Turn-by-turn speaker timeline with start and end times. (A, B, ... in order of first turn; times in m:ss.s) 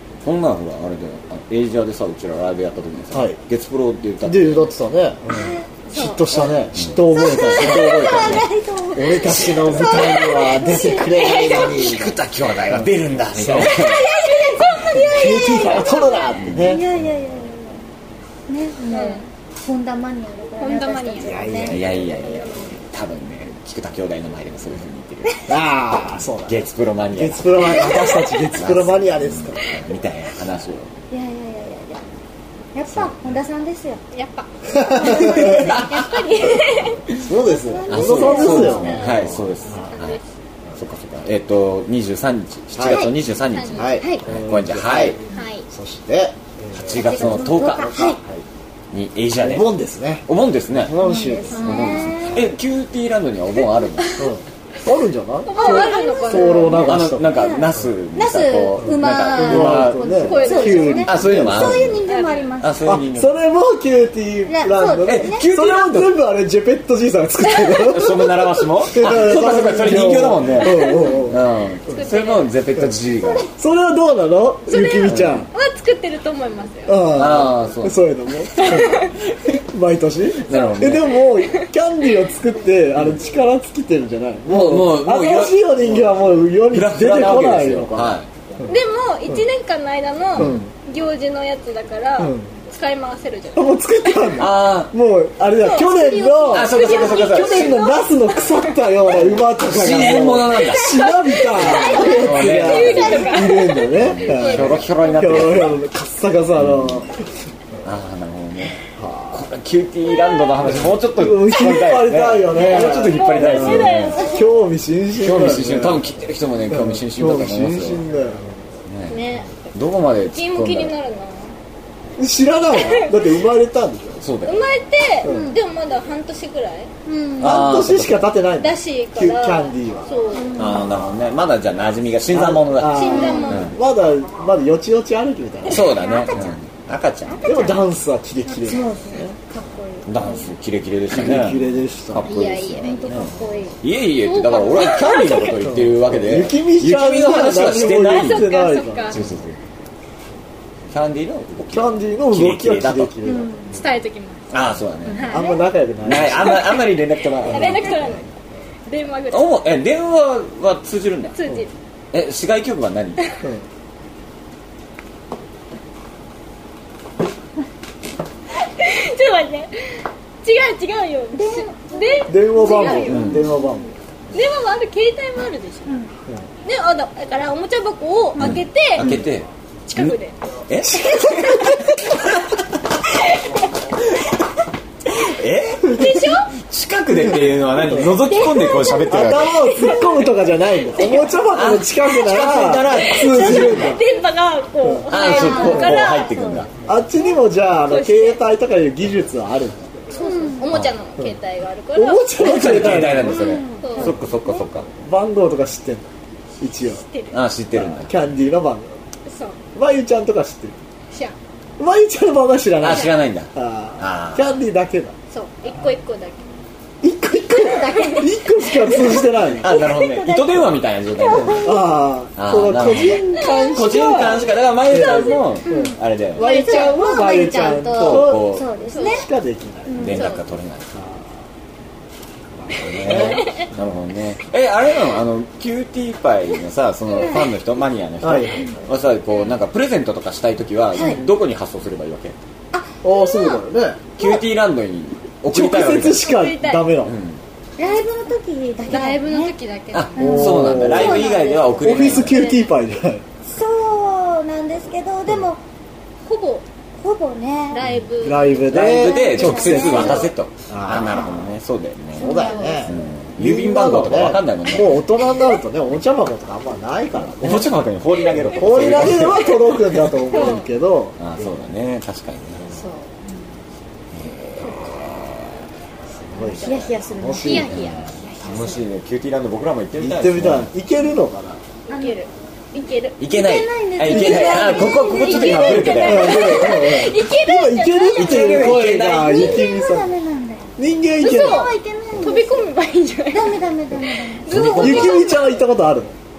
0:00.2-0:04.7 A
0:03.1-0:03.4 B
0:04.2-0:13.8 B
0:05.3-0:05.7 C
0:05.8-0:06.6 D
0:06.7-0:08.5 A
0:07.1-0:11.8 C
0:09.2-0:10.3 A
0:11.2-0:11.8 D
0:11.5-0:14.0 A
0:13.4-0:16.4 D
0:13.9-0:15.7 C
0:15.0-0:16.9 B
0:16.4-0:16.8 A
0:16.6-0:17.8 C
0:18.5-0:21.8 C
0:18.9-0:19.3 D
0:20.6-0:22.7 D
0:21.2-0:22.1 B
0:21.7-0:25.5 A
0:25.5-0:29.7 B
0:26.4-0:30.9 A
0:31.1-0:32.0 C
0:32.7-0:34.0 C
0:34.1-0:37.0 D
0:34.7-0:35.7 B
0:35.0-0:35.5 C
0:35.1-0:36.6 A
0:37.1-0:40.0 B
0:37.3-0:39.1 C
0:37.9-0:40.2 A
0:38.1-0:40.2 D
0:40.8-0:45.2 A
0:42.7-0:43.1 B
0:42.9-0:43.1 C
0:43.4-0:44.0 D
0:43.7-0:48.4 B
0:44.0-0:44.2 C
0:45.3-0:45.7 D
0:46.8-0:48.1 A
0:46.9-0:48.2 C
0:48.9-0:49.7 A
0:49.4-0:52.4 B
0:50.3-0:50.9 A
0:51.0-0:52.5 C
0:51.5-0:52.0 D
0:51.6-0:54.3 A
0:54.2-0:57.5 B
0:55.5-0:56.9 D
0:55.6-1:02.9 C
0:56.8-1:00.4 A
0:58.8-1:02.0 B
1:00.1-1:01.3 D
1:01.0-1:02.0 A
1:02.1-1:02.5 D
1:02.6-1:03.4 A
1:02.8-1:11.4 B
1:04.4-1:05.5 C
1:05.0-1:06.2 A
1:07.8-1:13.5 A
1:10.6-1:12.5 D
1:13.5-1:15.5 B
1:14.7-1:17.1 D
1:15.1-1:15.4 A
1:16.9-1:28.7 B
1:17.1-1:18.0 A
1:18.6-1:19.2 D
1:20.4-1:21.3 A
1:20.5-1:21.7 D
1:24.5-1:26.1 A
1:26.7-1:28.3 A
1:28.7-1:34.4 D
1:30.4-1:30.7 B
1:30.4-1:30.6 A
1:32.2-1:32.5 B
1:33.6-1:47.2 B
1:34.4-1:34.9 A
1:35.5-1:38.7 D
1:36.5-1:37.8 A
1:39.2-1:45.8 A
1:40.6-1:45.6 D
1:46.6-1:47.1 A
1:47.8-1:54.2 A
1:48.9-1:49.5 B
1:50.6-1:56.0 B
1:52.6-1:54.5 D
1:55.2-1:58.0 A
1:56.7-1:58.5 B
1:58.9-2:00.9 A
1:59.1-2:01.5 D
2:02.2-2:04.2 B
2:02.7-2:03.2 D
2:04.2-2:04.6 A
2:04.4-2:06.9 D
2:05.2-2:05.5 B
2:05.2-2:05.6 C
2:07.1-2:07.7 C
2:07.4-2:10.1 B
2:07.4-2:08.3 A
2:08.6-2:10.6 D
2:10.3-2:11.0 C
2:10.6-2:13.8 A
2:12.3-2:16.0 B
2:12.8-2:13.8 D
2:13.1-2:13.6 C
2:15.7-2:17.8 A
2:15.8-2:16.6 C
2:17.3-2:17.8 C
2:17.4-2:19.4 B
2:18.5-2:20.5 C
2:20.1-2:28.6 A
2:21.1-2:22.3 B
2:22.3-2:23.3 D
2:22.8-2:23.8 C
2:24.0-2:25.7 D
2:25.7-2:29.2 B
2:27.7-2:29.2 D
2:29.1-2:29.6 A
2:30.9-2:33.1 A
2:31.7-2:33.7 B
2:33.2-2:33.7 C
2:33.7-2:34.5 D
2:34.5-2:35.4 A
2:35.1-2:35.6 D
2:35.3-2:36.6 B
2:36.0-2:38.2 A
2:36.4-2:36.8 D
2:37.4-2:38.3 D
2:37.5-2:38.2 B
2:38.9-2:39.7 D
2:39.3-2:41.4 A
2:41.3-2:41.7 D
2:42.1-2:43.2 A
2:48.5-2:53.5 D
2:51.3-2:53.6 C
2:52.3-2:54.0 B
2:53.0-2:53.4 A
2:54.3-2:56.0 D
2:56.6-2:59.2 D
2:58.4-3:00.2 A
2:59.9-3:00.3 D
3:00.7-3:02.6 A
3:01.0-3:01.6 B
3:05.1-3:09.7 A
3:05.8-3:06.5 D
3:07.8-3:08.2 B
3:08.2-3:09.3 C
3:08.3-3:11.4 D
3:09.1-3:14.1 B
3:11.5-3:14.0 A
3:12.9-3:16.4 D
3:14.8-3:15.1 B
3:15.1-3:16.7 A
3:15.1-3:16.7 C
3:16.8-3:19.9 B
3:17.8-3:18.4 D
3:20.1-3:20.7 C
3:20.1-3:23.0 D
3:22.0-3:23.6 B
3:22.4-3:24.9 A
3:23.2-3:24.5 C
3:23.8-3:24.2 D
3:25.0-3:26.1 B
3:26.6-3:27.0 B
3:26.8-3:27.4 D
3:27.3-3:28.1 A
3:27.7-3:28.9 B
3:29.3-3:29.6 D
3:29.7-3:30.8 B
3:31.1-3:31.4 D
3:31.8-3:35.1 B
3:32.8-3:34.6 A
3:32.9-3:33.1 D
3:35.3-3:36.4 D
3:37.0-3:39.8 B
3:37.6-3:41.8 C
3:37.9-3:38.2 D
3:39.6-3:41.8 A
3:41.4-3:50.3 B
3:42.4-3:46.6 A
3:43.4-3:45.6 D
3:45.7-3:49.3 C
3:46.4-3:47.0 D
3:47.9-3:48.7 A
3:48.9-3:49.3 D
3:49.9-3:50.2 C
3:50.0-3:51.0 A
3:50.0-3:50.4 D
3:50.9-3:51.3 B
3:52.6-3:53.6 B
3:52.7-4:02.4 A
3:53.1-3:53.7 D
3:57.1-3:57.4 D
3:57.2-3:57.5 C
3:58.2-3:58.8 B
4:00.9-4:01.2 C
4:03.0-4:04.1 B
4:03.1-4:03.6 D
4:04.2-4:06.3 A
4:05.5-4:07.2 B
4:06.1-4:07.0 D
4:07.0-4:07.4 A
4:07.8-4:09.6 C
4:08.9-4:12.6 D
4:09.9-4:12.5 A
4:10.2-4:12.2 C
4:10.2-4:13.2 B
4:13.4-4:15.6 C
4:16.2-4:16.6 D
4:17.0-4:17.8 C
4:17.7-4:18.7 D
4:18.2-4:21.5 B
4:18.6-4:25.1 A
4:18.8-4:20.3 C
4:19.8-4:20.3 D
4:22.1-4:27.7 B
4:22.2-4:23.0 C
4:22.3-4:22.8 D
4:27.4-4:30.4 A
4:28.4-4:31.2 B
4:30.3-4:30.7 D
4:31.2-4:32.7 A
4:32.7-4:33.4 C
4:34.1-4:35.6 A
4:36.2-4:38.1 B
4:36.4-4:38.2 D
4:36.6-4:38.8 C
4:37.7-4:40.7 A
4:40.0-4:41.6 B
4:41.9-4:42.2 C
4:41.9-4:43.2 D
4:43.2-4:46.7 A
4:43.2-4:46.4 C
4:44.1-4:48.9 D
4:46.0-4:50.1 B
4:48.1-4:49.7 A
4:49.0-4:50.7 C
4:50.8-4:51.7 B
4:51.2-4:53.6 D
4:51.2-4:52.7 C
4:53.3-4:54.5 C
4:54.4-4:55.5 D
4:54.5-4:55.3 A
4:54.5-4:56.1 B